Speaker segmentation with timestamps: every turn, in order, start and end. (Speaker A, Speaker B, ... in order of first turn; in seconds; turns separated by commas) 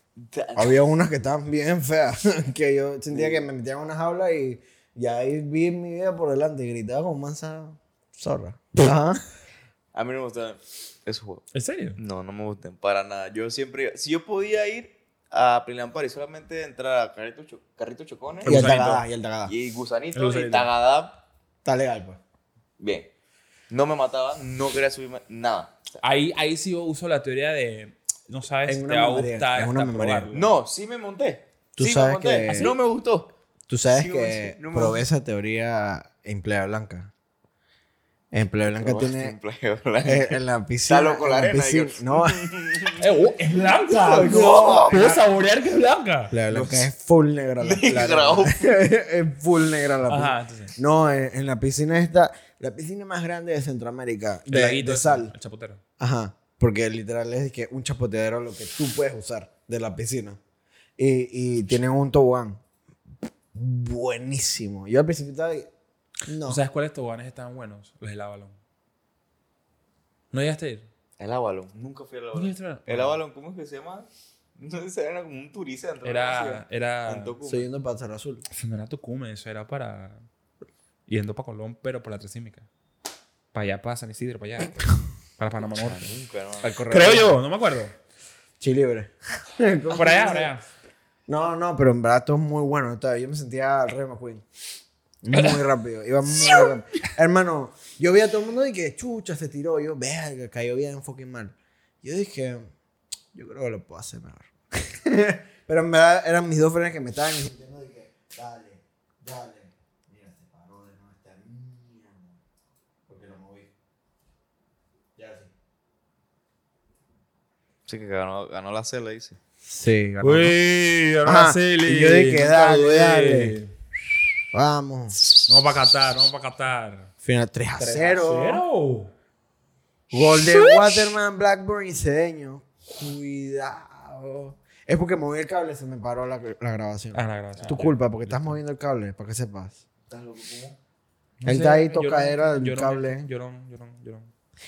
Speaker A: 0.2-0.8, Speaker B: 0.6-9.2, Speaker A: 3.1-3.4, Speaker A: 9.9-18.7, Speaker C: 11.5-12.0, Speaker B: 18.4-19.5, Speaker C: 18.4-19.0, Speaker A: 19.4-21.2, Speaker C: 20.1-20.7, Speaker B: 21.6-22.2, Speaker A: 22.8-23.1, Speaker A: 23.7-25.8, Speaker C: 26.0-30.4, Speaker B: 28.6-30.4, Speaker A: 30.3-33.3, Speaker B: 31.8-32.7, Speaker C: 32.5-32.7, Speaker B: 33.7-37.1, Speaker A: 33.9-35.0, Speaker B: 38.3-39.4, Speaker A: 38.8-43.1, Speaker B: 40.0-42.5, Speaker C: 43.0-46.3, Speaker A: 43.9-45.2, Speaker B: 44.1-45.2, Speaker B: 46.3-55.3, Speaker A: 46.5-46.9, Speaker A: 47.6-48.7, Speaker C: 50.1-50.7, Speaker C: 54.5-55.8, Speaker B: 56.0-60.4, Speaker B: 61.0-62.6, Speaker B: 63.5-65.7, Speaker B: 66.3-66.6, Speaker C: 66.4-68.5, Speaker C: 70.3-70.9, Speaker A: 71.2-77.7, Speaker C: 72.3-73.2, Speaker C: 76.0-77.3, Speaker B: 77.4-78.4, Speaker C: 78.5-80.2, Speaker C: 81.1-82.7, Speaker C: 83.5-86.1, Speaker A: 85.8-86.8, Speaker B: 86.6-87.4, Speaker C: 86.9-87.9, Speaker B: 88.6-90.5, Speaker C: 89.9-90.6, Speaker B: 91.3-94.4, Speaker B: 95.2-102.7, Speaker C: 95.3-95.6, Speaker C: 96.4-96.7, Speaker B: 103.3-112.4, Speaker B: 113.1-113.7, Speaker B: 115.2-115.5, Speaker A: 117.9-119.4, Speaker B: 119.6-120.5, Speaker C: 120.2-123.7, Speaker B: 121.2-123.6, Speaker B: 124.5-125.2, Speaker C: 125.5-127.1, Speaker B: 127.2-128.6, Speaker C: 127.8-129.1, Speaker B: 130.1-139.8, Speaker C: 137.1-138.6, Speaker A: 140.1-140.8, Speaker C: 141.4-144.3, Speaker B: 141.4-143.2